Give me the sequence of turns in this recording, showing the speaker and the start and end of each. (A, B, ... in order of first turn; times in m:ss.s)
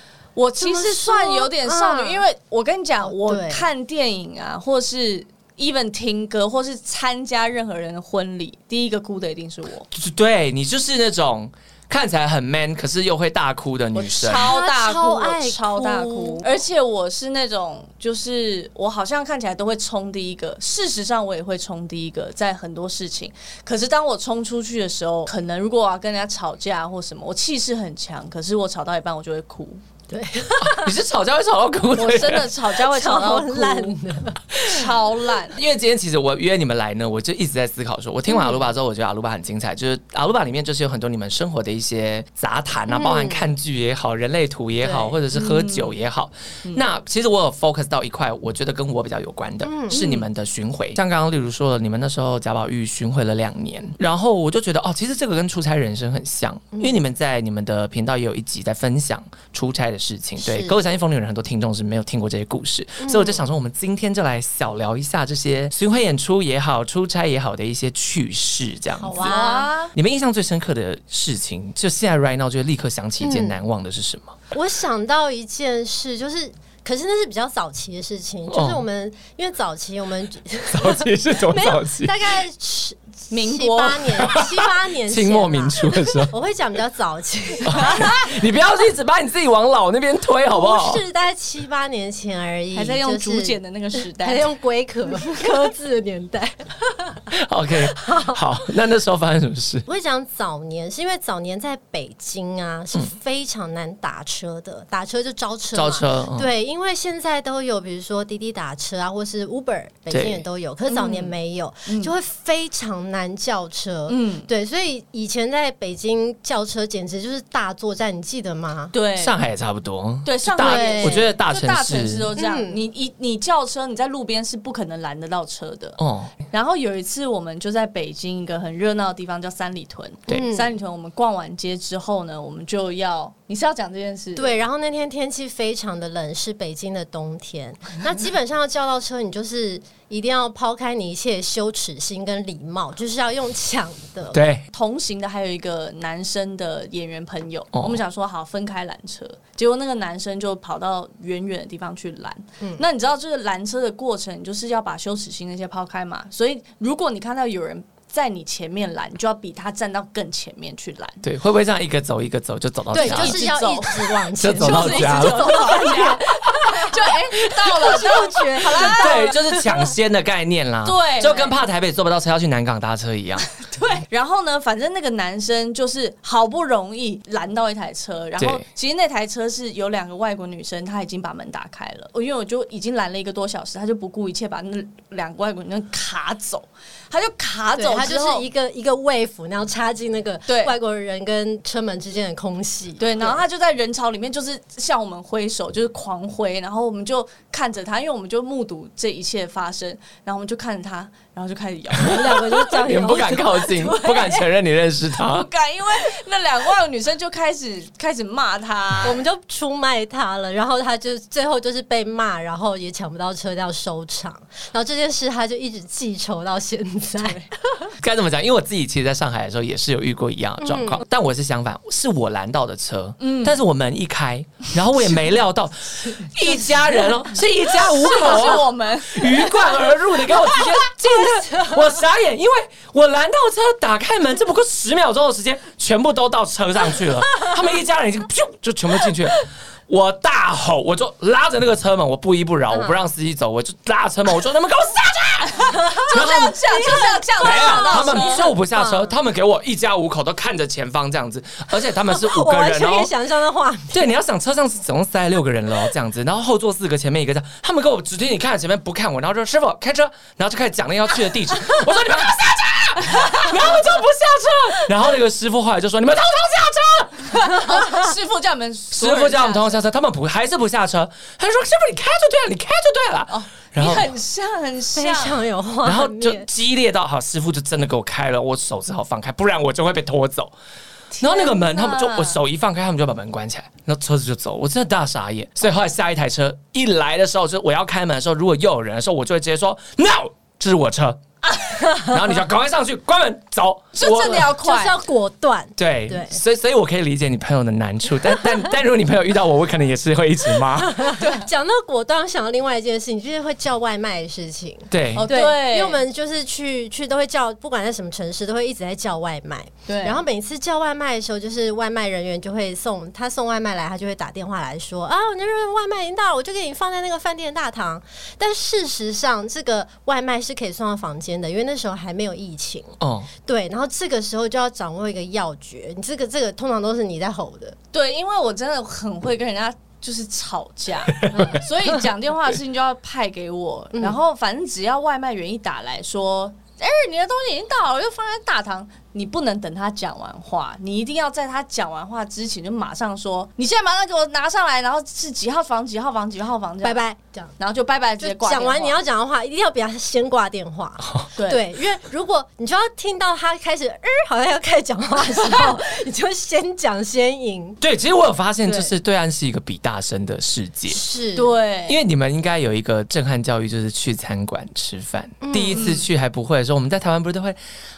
0:00.3-0:09.9 A
0:00.6-0:02.2 B
0:03.0-0:03.6 B
0:09.9-0:14.6 C
0:13.9-0:29.8 A
0:14.3-0:16.5 B
0:30.1-0:31.0 B
0:30.6-0:32.5 C
0:31.9-0:34.0 A
0:32.9-0:34.8 B
0:34.6-0:35.6 A
0:35.5-1:09.4 C
0:38.3-0:38.7 B
0:42.9-0:43.5 B
0:44.8-0:45.2 B
0:45.3-0:45.9 A
0:49.6-0:50.0 B
0:49.9-0:50.2 A
1:00.4-1:00.8 B
1:03.0-1:03.4 B
1:09.0-1:09.7 B
1:09.2-1:09.9 A
1:09.9-1:14.4 C
1:13.2-1:13.6 B
1:14.5-1:28.3 B
1:18.5-1:18.8 C
1:20.7-1:22.2 C
1:23.3-1:24.4 A
1:24.2-1:26.3 C
1:27.6-1:31.0 C
1:30.5-1:37.3 B
1:32.7-1:34.5 A
1:37.3-1:39.8 C
1:37.8-1:38.4 B
1:39.8-1:58.9 B
1:45.7-1:46.5 C
1:50.1-1:50.4 C
1:50.9-1:52.1 A
1:54.1-1:54.5 A
1:58.9-1:59.4 A
1:59.2-2:02.3 C
2:00.2-2:14.6 A
2:00.6-2:01.3 B
2:02.4-2:02.8 B
2:06.0-2:06.3 C
2:10.3-2:10.8 B
2:14.4-2:24.4 B
2:24.3-2:24.6 C
2:24.7-2:41.2 A
2:27.7-2:28.0 C
2:41.2-2:43.4 C
2:42.9-2:49.9 B
2:42.9-2:49.4 A
2:44.4-2:46.1 C
2:48.8-2:53.5 C
2:50.8-2:51.6 A
2:53.6-3:08.5 A
2:58.4-2:58.6 C
3:07.8-3:13.4 B
3:10.5-3:10.7 A
3:13.0-3:23.2 A
3:22.0-3:24.4 B
3:22.8-3:25.5 C
3:25.2-3:29.2 A
3:29.0-3:37.9 B
3:38.0-4:06.6 C
3:40.6-3:41.0 B
3:43.2-3:43.6 A
3:47.8-3:49.8 A
3:51.2-3:51.8 B
4:02.7-4:03.0 B
4:05.5-4:08.5 A
4:05.8-4:09.2 B
4:07.4-4:13.1 C
4:12.0-4:14.1 B
4:13.9-4:27.6 C
4:23.1-4:23.5 A
4:27.3-4:29.8 A
4:27.7-4:28.1 B
4:28.9-4:34.1 C
4:33.3-4:35.4 A
4:34.9-4:36.5 B
4:35.8-4:40.5 C
4:41.1-4:42.4 A
4:41.2-4:54.5 C
4:51.8-4:52.1 B
4:54.0-4:55.0 A
4:54.0-4:56.4 B
4:55.8-5:01.0 C
5:00.5-5:27.8 B
5:01.2-5:01.4 A
5:04.9-5:05.3 C
5:05.2-5:06.0 A
5:09.9-5:10.2 A
5:23.0-5:23.3 C
5:27.9-5:47.0 A
5:31.3-5:31.6 C
5:31.3-5:31.6 B
5:46.8-5:47.5 B
5:47.6-5:49.0 A
5:48.2-5:57.8 B
5:51.0-5:51.3 C
5:51.4-5:51.6 A
5:57.8-6:01.0 C
5:58.6-5:58.9 A
6:00.9-6:01.5 B
6:01.3-6:02.0 A
6:01.9-6:07.6 C
6:05.4-6:06.0 B
6:05.7-6:06.1 A